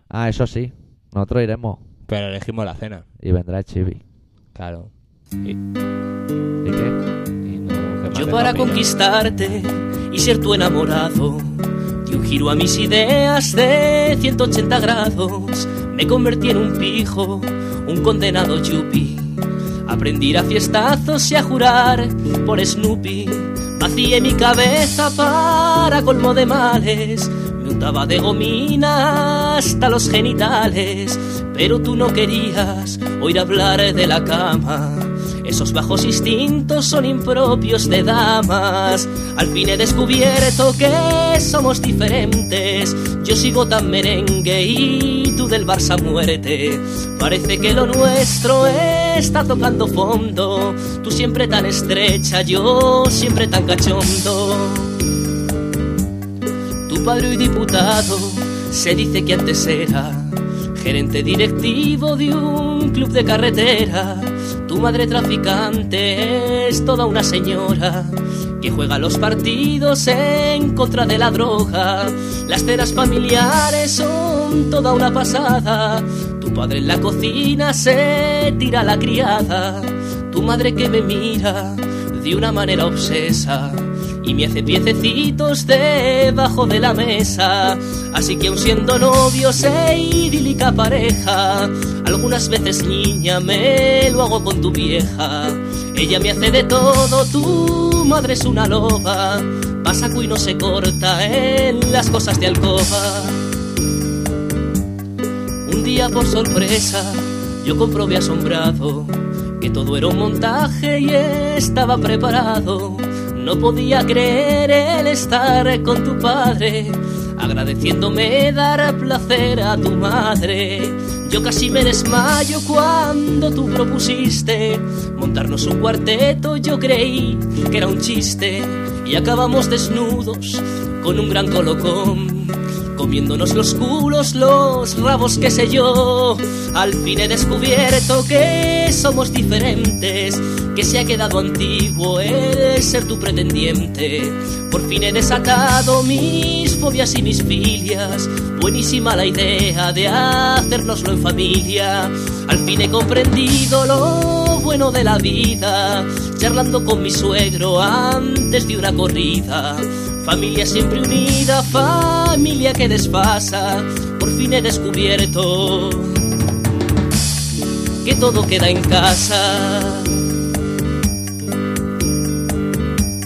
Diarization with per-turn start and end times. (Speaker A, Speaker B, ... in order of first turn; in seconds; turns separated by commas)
Speaker A: 0.1-1.8, Speaker B: 2.1-3.1, Speaker A: 3.2-4.0, Speaker B: 4.5-5.6, Speaker A: 6.6-7.0, Speaker B: 7.4-8.9, Speaker C: 8.1-55.0, Speaker C: 56.9-103.4, Speaker C: 105.7-166.2, Speaker C: 168.0-170.2